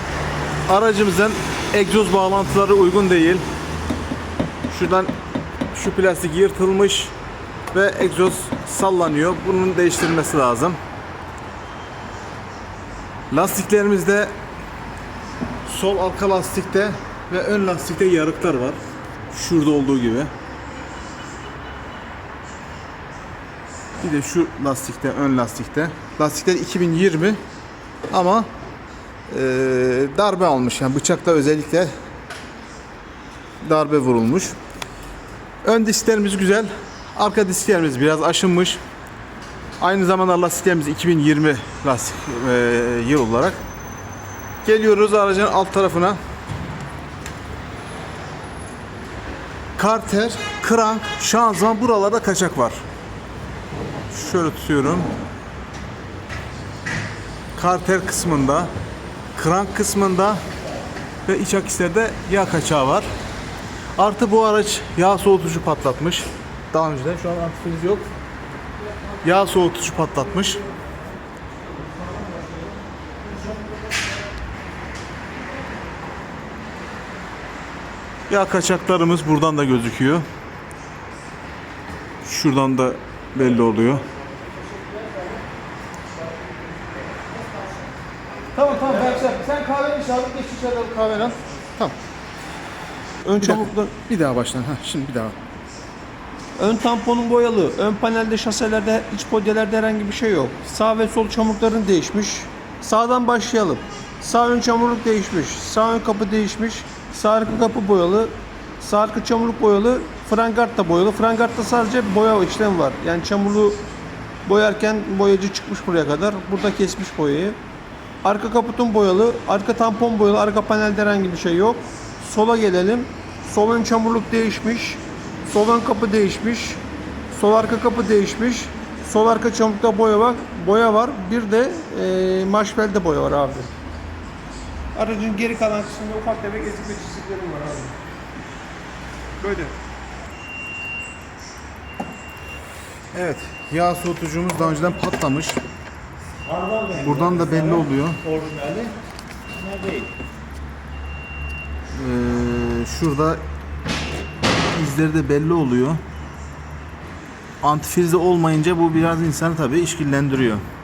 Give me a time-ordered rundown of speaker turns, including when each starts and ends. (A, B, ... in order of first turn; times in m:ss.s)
0:00.7-0:03.4 A
0:04.7-0:05.1 A
0:05.7-0:07.1 A
0:07.7-0:10.8 A
0:13.3-0:14.3 A
0:15.6-0:18.8 A
0:19.3-0:20.3 A
0:24.0-0:27.4 A
0:28.1-0:28.5 A
0:29.3-0:31.9 A
0:33.6-0:34.6 A
0:35.6-0:38.8 A
0:39.8-0:43.6 A
0:44.6-0:46.2 A
0:49.8-0:52.8 A
0:54.1-0:55.1 A
0:57.6-0:58.7 A
0:59.3-1:00.4 A
1:01.3-1:03.1 A
1:04.0-1:08.0 A
1:09.2-1:10.6 A
1:18.3-1:20.2 A
1:22.2-1:24.0 A
1:28.6-1:31.9 A
1:33.2-1:33.9 B
1:33.4-1:35.4 A
1:36.6-1:53.8 B
1:54.4-1:57.6 B
1:58.2-2:06.8 B
2:07.3-2:13.7 B
2:15.0-2:17.9 B
2:19.4-2:19.7 B
2:23.1-2:25.6 A
2:26.5-2:27.0 B
2:26.5-2:28.9 C
2:27.0-2:28.2 A
2:29.6-2:30.1 C
2:31.9-2:33.4 A
2:34.7-2:36.0 A
2:37.6-2:40.6 A